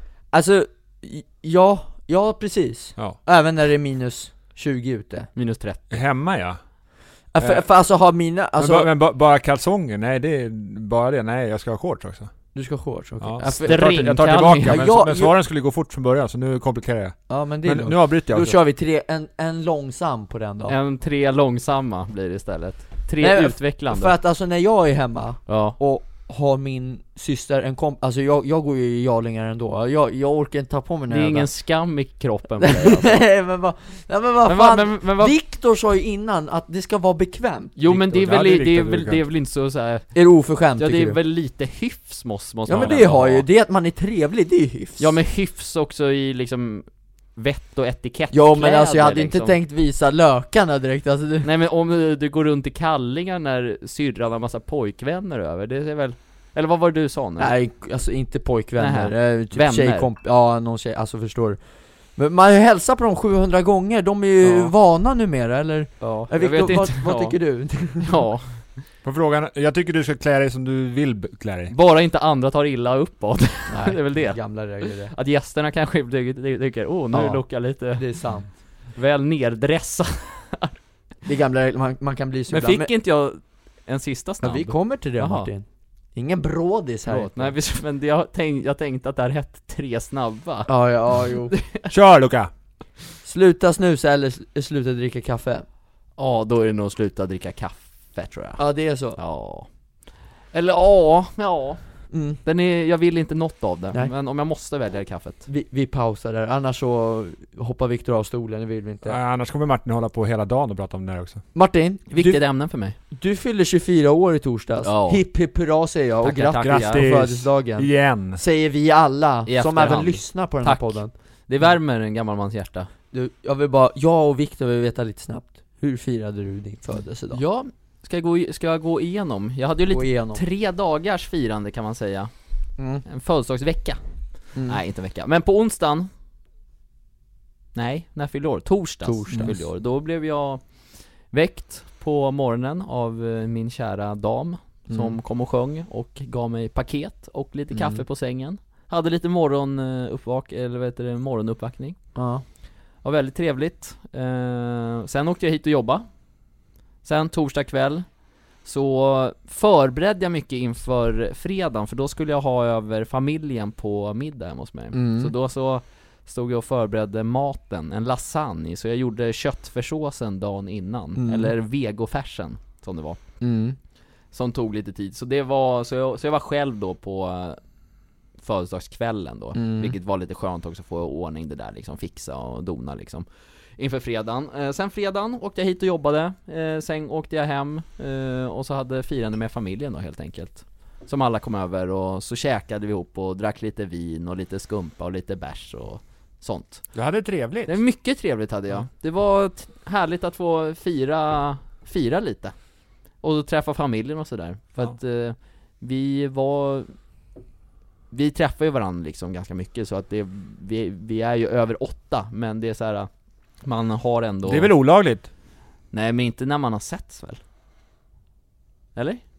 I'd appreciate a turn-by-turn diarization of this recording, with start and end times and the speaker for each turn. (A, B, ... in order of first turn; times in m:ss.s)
0:00.3-0:05.3 A
0:05.4-0:05.8 B
0:05.9-0:06.6 C
0:07.3-0:08.9 A
0:07.4-0:07.6 C
0:08.6-0:12.3 C
0:12.5-0:14.1 A
0:13.2-0:18.6 C
0:13.5-0:14.8 B
0:14.6-0:15.4 A
0:17.3-0:20.8 A
0:20.7-0:24.1 B
0:23.2-0:31.5 A
0:25.5-0:25.8 B
0:31.1-0:33.2 B
0:32.6-0:37.8 A
0:34.4-0:35.3 B
0:37.8-0:40.2 B
0:37.9-0:39.2 C
0:40.1-0:41.2 A
0:40.8-0:43.4 B
0:42.7-0:45.1 A
0:45.0-0:49.6 B
0:48.3-0:51.5 A
0:51.4-0:57.5 B
0:57.4-1:01.6 A
0:58.8-1:00.1 B
1:02.2-1:08.2 A
1:04.4-1:04.7 B
1:06.0-1:07.4 B
1:08.0-1:08.6 B
1:09.0-1:11.7 C
1:11.7-1:18.1 B
1:13.7-1:15.1 A
1:17.1-1:18.5 A
1:19.0-1:20.8 B
1:21.2-1:22.9 A
1:22.5-1:25.5 B
1:24.4-1:27.6 A
1:27.1-1:31.9 B
1:30.7-1:31.5 A
1:31.9-1:32.5 C
1:33.2-1:35.6 A
1:36.2-1:38.6 B
1:38.6-1:39.2 A
1:39.2-1:39.7 B
1:40.5-1:41.8 B
1:42.1-1:42.4 A
1:42.4-1:45.4 B
1:45.5-1:49.2 A
1:49.0-1:51.4 C
1:51.5-1:52.4 A
1:52.1-1:53.0 B
1:53.1-2:01.1 A
1:54.8-1:55.2 B
1:56.2-1:57.0 B
1:56.6-1:58.4 C
1:59.5-2:02.9 B
2:03.1-2:07.4 A
2:07.3-2:12.3 B
2:09.9-2:10.4 A
2:12.8-2:13.0 A
2:13.0-2:16.1 B
2:14.6-2:14.8 A
2:17.8-2:32.0 B
2:19.0-2:19.6 A
2:24.9-2:25.2 A
2:27.7-2:28.0 A
2:32.2-2:32.4 A
2:33.0-2:36.1 B
2:37.0-2:38.1 B
2:38.6-2:53.2 B
2:44.9-2:45.3 A
2:51.2-2:51.5 A
2:53.4-2:53.8 A
2:54.3-2:57.6 B
2:58.4-3:16.8 B
2:59.6-2:59.9 A
3:16.9-3:17.8 C
3:17.7-3:22.6 B
3:23.2-3:26.9 B
3:28.1-3:33.1 B
3:33.6-3:34.7 B
3:34.5-3:35.3 C
3:35.9-3:37.4 B
3:39.0-3:39.2 B